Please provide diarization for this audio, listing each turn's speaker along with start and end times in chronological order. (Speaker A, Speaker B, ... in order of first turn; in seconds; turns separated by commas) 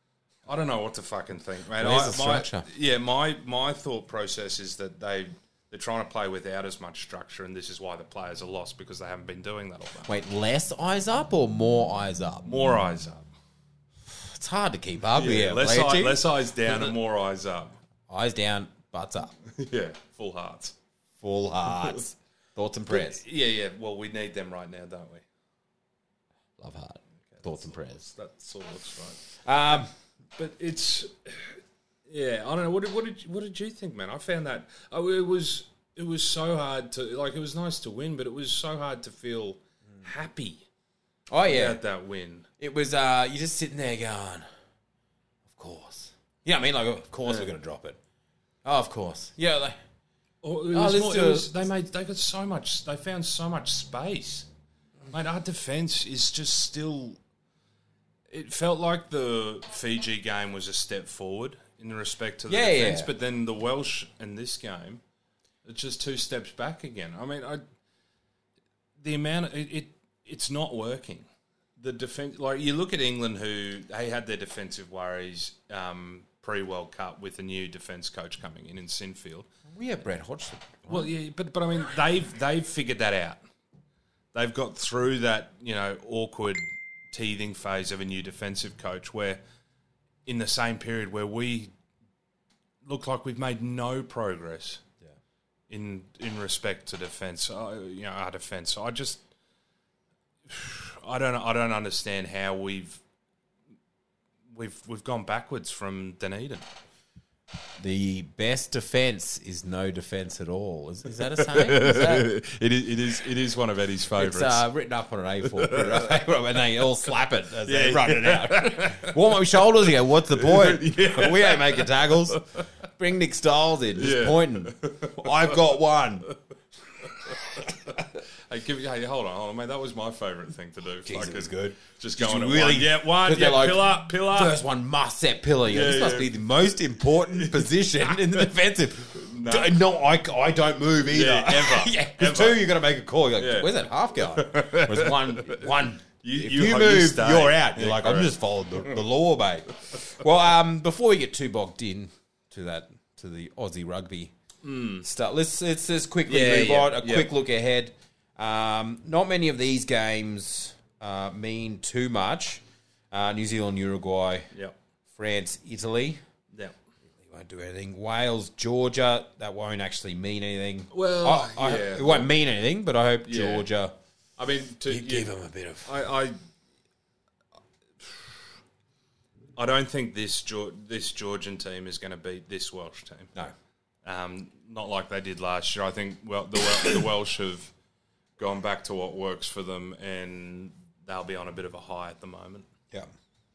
Speaker A: 0.5-10.1, Speaker B: 1.8-2.7, Speaker B: 10.1-12.6, Speaker A: 12.4-13.3, Speaker B: 14.1-16.9, Speaker A: 15.1-17.8, Speaker B: 18.1-19.4, Speaker A: 19.5-20.8, Speaker B: 21.2-23.2, Speaker A: 22.9-25.2, Speaker B: 26.6-28.0, Speaker A: 27.3-29.8, Speaker B: 29.4-29.9, Speaker A: 30.4-40.7, Speaker B: 41.3-41.8, Speaker A: 41.5-42.5, Speaker B: 42.6-44.5, Speaker B: 45.5-48.0, Speaker B: 48.6-49.8, Speaker A: 50.4-54.5, Speaker B: 50.7-51.7, Speaker A: 55.1-57.2, Speaker A: 58.3-65.0, Speaker B: 62.5-63.1, Speaker A: 65.7-67.6, Speaker A: 69.0-79.5, Speaker B: 79.7-81.1, Speaker A: 80.9-83.4, Speaker A: 84.3-89.4, Speaker A: 90.3-91.7, Speaker A: 92.8-94.8, Speaker A: 95.7-99.2, Speaker A: 100.5-103.0, Speaker A: 104.5-106.7, Speaker B: 107.8-112.3, Speaker A: 111.2-114.7, Speaker B: 114.2-126.3, Speaker A: 115.4-116.2, Speaker A: 117.7-119.2, Speaker A: 120.3-122.6, Speaker A: 124.0-125.6, Speaker A: 127.0-134.6, Speaker B: 131.1-154.3, Speaker A: 135.7-136.5, Speaker A: 137.2-138.4, Speaker A: 139.1-139.8, Speaker A: 141.1-142.7, Speaker A: 143.4-148.9, Speaker A: 154.6-155.1, Speaker B: 155.0-164.5, Speaker A: 156.3-157.3, Speaker B: 165.1-166.2, Speaker B: 167.2-173.9, Speaker A: 170.9-172.3, Speaker A: 173.2-173.7, Speaker A: 174.4-175.3, Speaker B: 174.9-176.0, Speaker A: 175.8-176.4, Speaker A: 178.0-178.4, Speaker A: 179.6-183.3, Speaker A: 184.0-187.7, Speaker A: 188.4-192.7